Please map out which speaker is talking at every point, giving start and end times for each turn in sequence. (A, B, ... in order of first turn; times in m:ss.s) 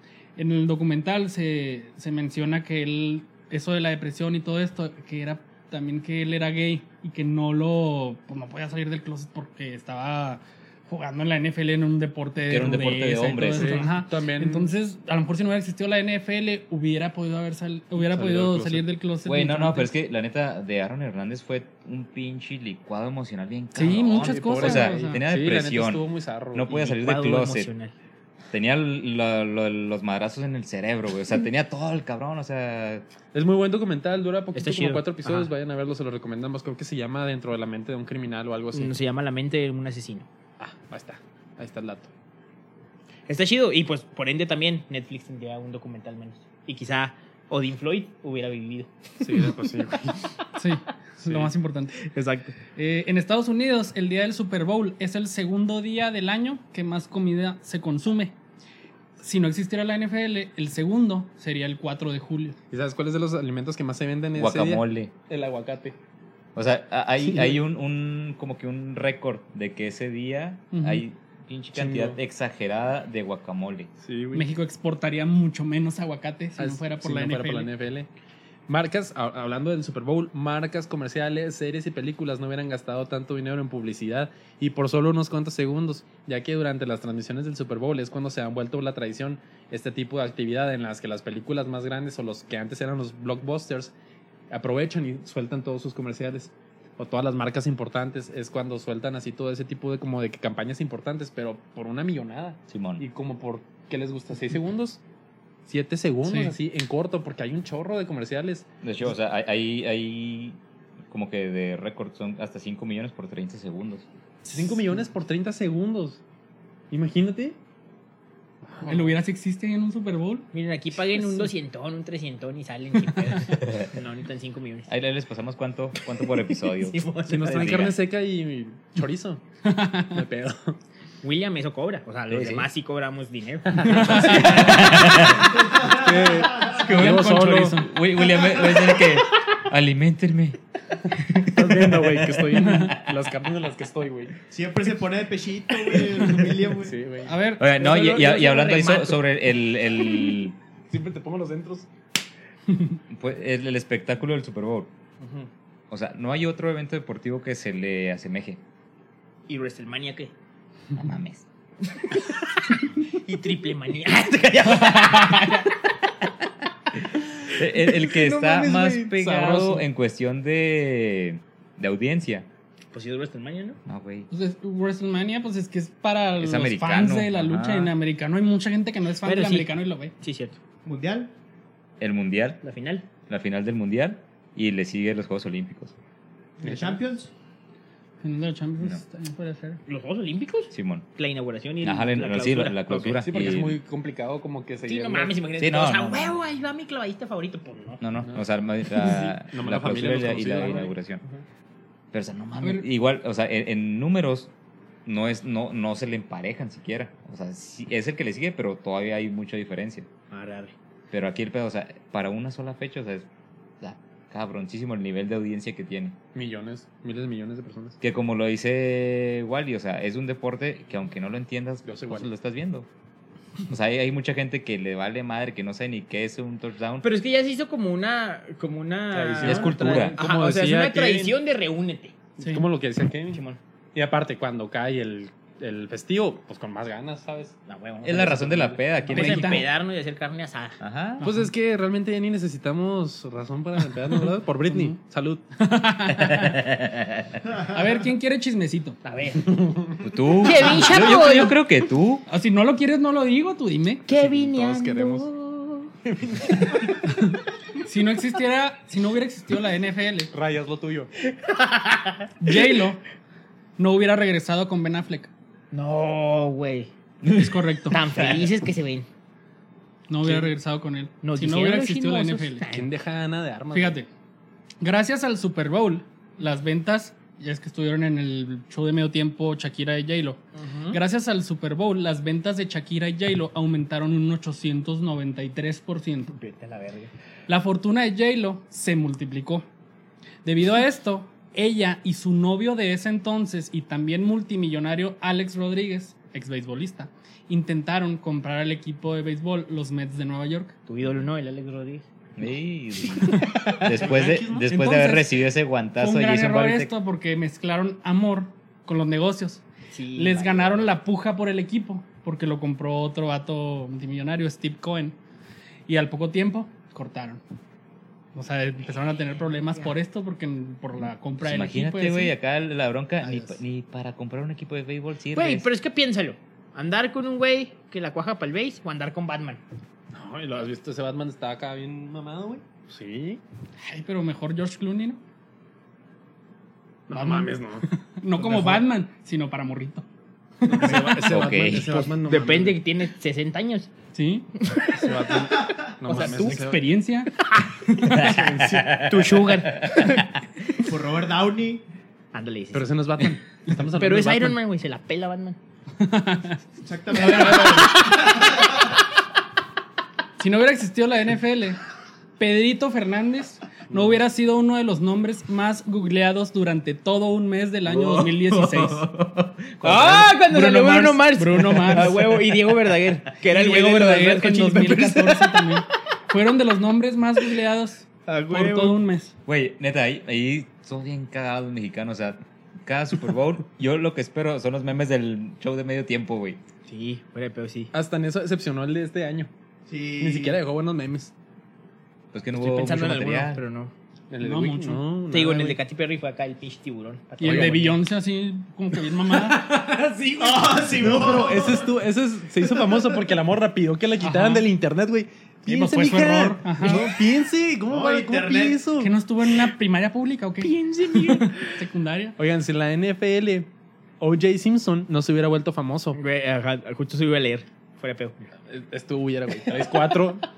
0:00.4-0:19.9 A
0:12.5-0:13.8 B
0:13.5-0:14.7 C
0:17.9-0:18.8 C
0:19.2-0:27.7 B
0:23.7-0:25.2 A
0:24.1-0:26.7 C
0:26.6-0:27.9 D
0:28.5-0:33.0 B
0:33.3-0:38.9 C
0:34.5-0:35.5 D
0:38.7-0:40.3 D
0:40.6-0:42.1 C
0:43.3-0:48.9 D
0:49.2-0:50.2 C
0:50.6-0:52.0 A
0:51.2-0:51.5 C
0:52.0-0:52.6 D
0:52.7-0:58.3 A
0:59.2-1:02.6 A
1:02.7-1:06.0 C
1:04.3-1:05.1 B
1:06.5-1:13.9 B
1:07.2-1:07.6 C
1:10.7-1:11.0 A
1:11.7-1:12.2 C
1:14.0-1:14.5 C
1:14.3-1:17.7 A
1:16.6-1:18.1 C
1:18.7-1:33.9 C
1:34.5-1:45.0 C
1:42.7-1:43.0 B
1:45.6-1:48.7 C
1:46.3-1:46.5 A
1:48.8-1:50.6 B
1:51.1-1:54.0 B
1:54.5-1:54.8 A
1:54.5-1:56.2 C
1:56.9-1:57.6 C
1:58.7-1:59.2 C
1:58.9-2:00.5 A
2:00.5-2:04.9 D
2:03.5-2:03.9 B
2:04.9-2:08.0 B
2:06.5-2:07.7 D
2:07.3-2:09.4 C
2:09.6-2:10.2 A
2:10.1-2:10.8 C
2:11.2-2:15.0 D
2:12.3-2:12.7 B
2:13.8-2:17.8 C
2:13.9-2:14.8 A
2:14.4-2:15.6 B
2:15.7-2:16.5 E
2:16.7-2:17.9 A
2:16.8-2:20.6 B
2:21.2-2:23.1 B
2:21.4-2:24.4 C
2:22.5-2:23.0 A
2:24.5-2:27.0 E
2:26.8-2:27.3 C
2:27.2-2:29.1 A
2:27.6-2:30.6 B
2:30.9-2:31.9 C
2:33.1-2:34.9 B
2:35.2-2:35.5 D
2:35.9-2:38.6 B
2:39.5-2:40.3 D
2:41.0-2:41.4 B
2:42.0-2:45.7 D
2:47.5-2:52.5 B
2:47.7-2:49.8 C
2:52.9-2:53.8 D
2:53.8-2:54.3 B
2:54.3-3:00.1 A
2:56.4-2:57.9 B
2:59.2-3:00.6 D
3:00.8-3:01.3 E
3:02.0-3:02.6 B
3:02.6-3:03.1 D
3:03.3-3:05.9 B
3:06.6-3:07.3 E
3:06.6-3:07.0 C
3:08.2-3:09.8 A
3:09.9-3:13.3 D
3:10.7-3:11.1 B
3:11.8-3:13.8 B
3:13.2-3:15.4 C
3:14.8-3:18.0 D
3:15.6-3:16.4 B
3:18.0-3:21.2 B
3:18.2-3:20.9 C
3:22.1-3:24.5 B
3:25.0-3:30.1 B
3:30.3-3:30.7 D
3:31.1-3:33.3 B
3:33.8-3:36.2 B
3:36.3-3:38.0 C
3:38.0-3:42.9 B
3:41.8-3:42.3 C
3:43.7-3:47.1 B
3:47.0-3:52.1 D
3:49.1-3:51.3 C
3:49.4-3:50.2 B
3:52.4-3:53.4 C
3:53.3-3:53.6 D
3:53.9-3:57.6 C
3:57.7-4:00.8 D
3:58.0-3:59.7 B
3:59.1-3:59.6 A
4:00.8-4:01.2 B
4:01.2-4:01.5 A
4:01.2-4:05.4 C
4:04.7-4:05.0 A
4:05.6-4:06.6 A
4:06.1-4:07.4 B
4:07.6-4:09.0 A
4:09.0-4:09.6 D
4:09.5-4:10.0 C
4:10.0-4:12.2 B
4:10.4-4:11.6 D
4:12.3-4:14.0 A
4:14.0-4:15.9 D
4:14.1-4:15.3 C
4:16.0-4:17.0 C
4:17.1-4:20.3 A
4:20.3-4:21.1 C
4:21.6-4:22.2 D
4:22.4-4:23.0 A
4:23.8-4:25.3 A
4:25.7-4:26.9 D
4:27.3-4:28.1 A
4:27.8-4:29.1 D
4:30.1-4:32.7 A
4:31.2-4:32.8 D
4:32.7-4:34.0 C
4:33.7-4:34.1 A
4:34.8-4:46.3 A
4:40.6-4:41.0 D
4:46.3-4:47.1 D
4:47.5-4:49.6 A
4:50.4-5:00.8 A
5:00.9-5:02.0 D
5:02.4-5:06.9 B
5:03.4-5:03.7 A
5:03.7-5:04.7 C
5:04.7-5:05.4 A
5:06.0-5:09.6 A
5:09.9-5:10.9 D
5:10.2-5:15.2 A
5:15.9-5:17.4 A
5:18.3-5:22.3 A
5:19.1-5:19.9 D
5:21.4-5:25.7 B
5:25.3-5:29.6 D
5:30.1-5:33.4 C
5:33.9-5:35.2 A
5:37.1-5:37.8 C
5:37.1-5:40.0 A
5:38.4-5:38.8 C
5:40.6-5:41.3 A
5:40.7-5:42.8 C
5:41.2-5:41.9 B
5:41.8-5:43.9 D
5:44.1-5:44.6 A
5:44.6-5:45.3 D
5:44.8-5:46.8 C
5:46.0-5:46.6 D
5:46.1-5:47.3 A
5:47.6-5:50.3 D
5:47.9-5:48.6 A
5:48.1-5:50.2 B
5:48.2-5:48.8 C
5:50.8-5:51.8 E
5:52.3-5:52.9 D
5:52.7-5:54.6 C
5:53.9-5:55.6 D
5:56.0-5:56.6 A
5:56.8-5:58.5 E
5:57.1-5:58.9 A
6:00.4-6:01.8 A
6:02.4-6:09.1 A
6:07.9-6:08.3 D
6:09.8-6:15.8 D
6:09.8-6:10.3 B
6:10.0-6:12.5 A
6:13.4-6:19.3 A
6:18.3-6:19.0 D
6:19.5-6:26.6 B
6:26.9-6:27.9 D
6:27.9-6:29.5 C
6:29.9-6:30.6 E
6:30.2-6:31.3 C
6:32.3-6:33.6 B
6:32.5-6:33.9 D
6:34.3-6:35.8 C
6:34.4-6:35.0 A
6:35.3-6:38.0 D
6:37.4-6:39.7 A
6:37.4-6:37.8 C
6:39.4-6:40.1 C
6:40.2-6:40.4 D
6:40.4-6:41.9 E
6:40.9-6:49.1 C
6:44.2-6:44.6 A
6:45.6-6:47.1 A
6:47.9-6:48.9 E
6:48.9-6:52.4 A
6:50.6-6:51.6 D
6:52.4-6:53.7 C
6:54.2-6:56.2 C
6:56.1-6:58.5 D
6:58.7-7:00.4 C